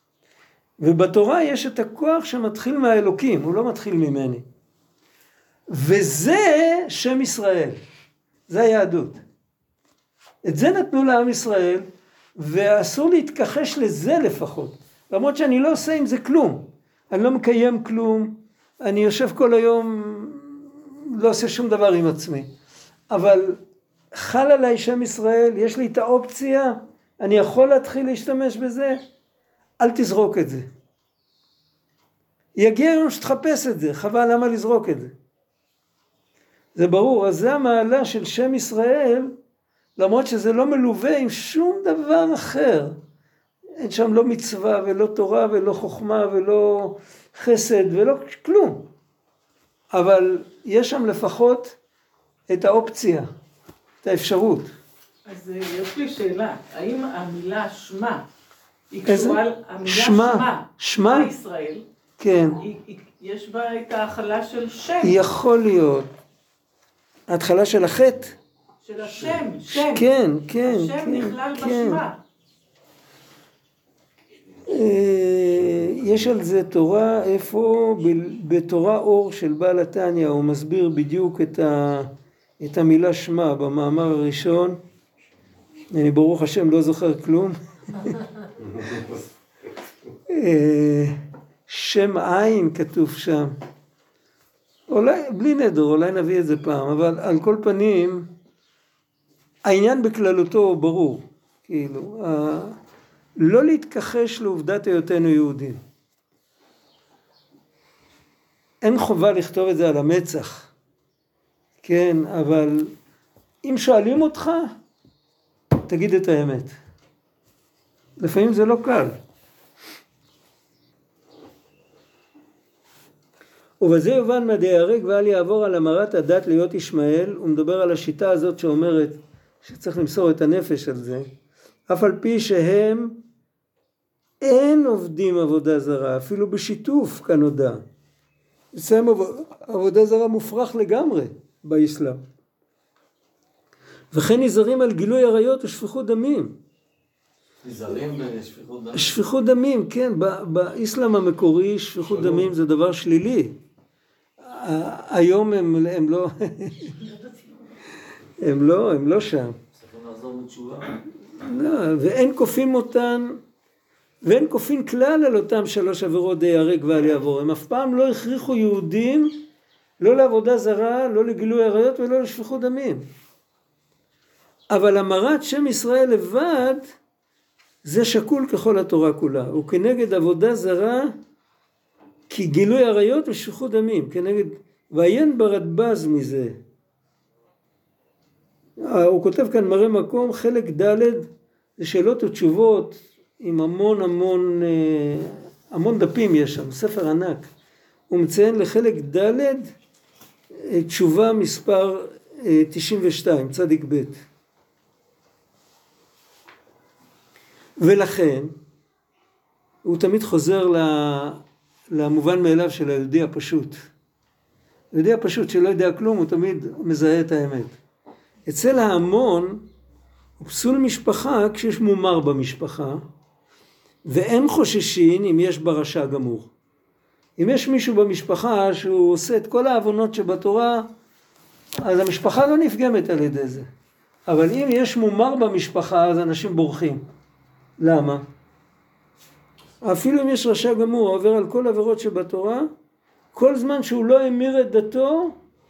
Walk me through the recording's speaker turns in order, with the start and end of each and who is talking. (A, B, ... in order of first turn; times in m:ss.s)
0:00.8-0:04.4 A
0:05.7-0:07.8 A
0:08.5-0:09.2 A
0:10.4-0:11.9 A
0:12.4-0:22.5 A
0:23.1-0:23.6 A
0:24.1-0:29.0 A
0:29.8-0:30.7 A
0:32.6-0:35.1 A
0:36.8-0:39.3 A
0:40.0-0:43.0 A
0:43.8-0:48.8 A
0:49.9-0:51.8 A
0:52.5-0:53.3 A
0:54.0-0:54.7 A
0:55.3-0:58.2 B
0:58.9-1:01.8 B
0:59.0-1:01.3 A
1:02.2-1:02.6 A
1:02.6-1:05.2 B
1:05.0-1:06.1 A
1:07.3-1:08.4 A
1:08.8-1:10.1 B
1:09.7-1:12.0 A
1:10.6-1:12.2 B
1:14.7-1:22.1 A
1:22.6-1:24.8 A
1:25.9-1:28.2 A
1:30.3-1:31.1 A
1:31.7-1:33.5 A
1:34.9-1:38.3 A
1:39.6-1:42.8 A
1:43.4-1:45.8 A
1:48.8-1:50.7 A
1:51.8-1:52.9 A
1:53.6-1:54.7 A
1:55.9-1:56.8 A
1:58.2-1:59.1 A
2:03.8-2:11.3 A
2:11.9-2:13.2 A
2:14.4-2:17.8 A
2:18.7-2:22.2 A
2:24.1-2:26.5 A
2:27.6-2:29.2 C
2:28.9-2:33.5 A
2:34.4-2:37.0 A
2:38.4-2:39.6 A
2:39.8-2:41.0 C
2:41.4-2:43.4 A
2:44.2-2:49.4 A
2:50.0-2:53.0 A
2:54.7-2:56.9 A
2:57.8-3:01.1 A
3:02.3-3:06.6 A
3:08.8-3:11.3 A
3:11.8-3:17.5 A
3:18.1-3:19.7 A
3:20.6-3:24.2 A
3:27.8-3:28.5 A
3:29.8-3:31.4 A
3:31.9-3:33.8 A
3:34.9-3:37.8 A
3:38.5-3:39.6 A
3:40.4-3:43.0 A
3:44.1-3:46.5 A
3:47.4-3:50.9 A
3:51.8-3:53.7 A
3:54.3-3:57.0 A
3:57.8-3:58.2 A
3:59.8-4:02.7 A
4:03.3-4:05.4 A